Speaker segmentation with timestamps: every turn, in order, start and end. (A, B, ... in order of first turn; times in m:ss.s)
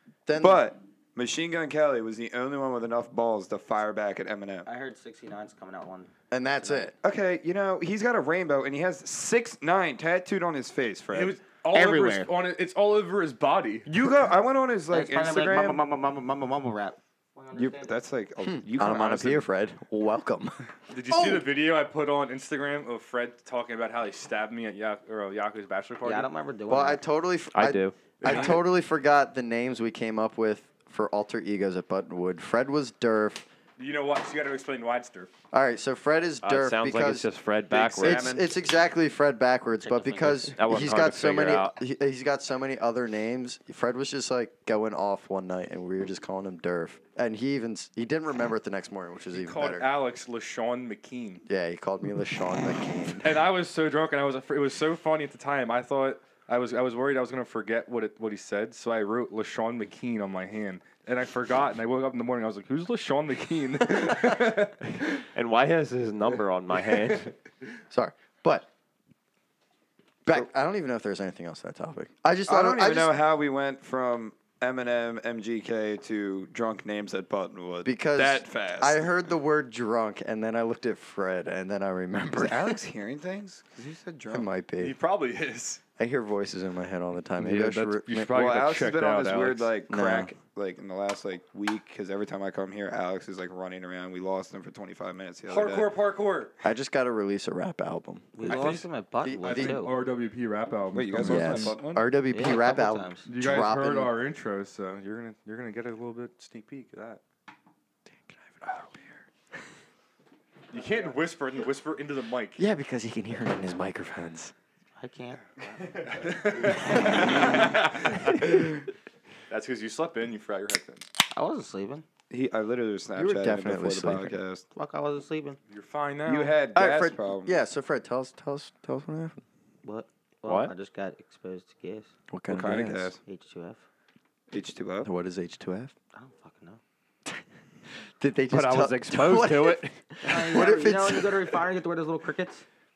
0:00.2-0:00.6 A
0:00.4-0:04.7 B
0:04.6-0:06.1 C
0:06.3-0:06.9 A
0:06.6-0:06.9 C
0:07.0-0:11.4 B
0:11.1-0:13.9 D
0:11.7-0:12.3 C
0:13.8-0:15.8 B
0:14.9-0:18.0 C
0:17.5-0:19.4 B
0:18.4-0:21.5 A
0:20.9-0:26.3 D
0:26.0-0:27.0 C
0:26.7-0:33.4 A
0:27.5-0:28.0 E
0:28.2-0:28.6 D
0:33.8-0:35.3 D
0:35.5-0:37.3 A
0:36.4-0:38.3 E
0:37.7-0:38.4 B
0:38.0-0:49.8 A
0:39.8-0:40.6 C
0:40.6-0:41.7 E
0:49.3-0:51.4 D
0:51.4-0:53.4 A
0:53.2-1:05.2 D
1:05.3-1:07.3 E
1:07.9-1:08.7 A
1:10.2-1:13.1 A
1:12.5-1:19.1 B
1:17.8-1:22.8 A
1:22.3-1:24.5 B
1:24.3-1:25.0 A
1:24.8-1:25.8 D
1:26.0-1:28.3 A
1:27.4-1:29.7 D
1:28.3-1:35.9 B
1:29.9-1:30.3 A
1:35.5-1:36.5 D
1:36.6-1:38.6 A
1:38.4-1:40.0 C
1:38.4-1:38.8 D
1:38.5-1:38.8 B
1:39.2-1:39.8 A
1:39.4-1:41.8 D
1:40.9-1:42.0 B
1:41.2-1:44.1 A
1:42.3-1:43.3 C
1:43.2-1:47.2 D
1:48.2-1:49.2 A
1:50.7-1:52.6 D
1:52.6-1:54.5 A
1:55.0-1:55.5 C
1:55.8-1:58.7 D
1:56.9-1:57.7 A
1:57.1-1:57.6 C
1:59.5-2:01.0 D
2:01.3-2:02.0 C
2:02.3-2:04.7 B
2:03.1-2:04.3 A
2:04.7-2:05.6 C
2:05.7-2:06.5 D
2:06.2-2:07.6 B
2:06.7-2:09.4 A
2:09.8-2:12.1 C
2:10.4-2:10.7 E
2:12.3-2:13.1 A
2:12.5-2:13.2 B
2:13.2-2:13.8 C
2:14.5-2:15.1 B
2:15.0-2:15.9 A
2:16.1-2:16.8 C
2:18.2-2:21.5 A
2:18.5-2:20.0 E
2:20.2-2:22.6 C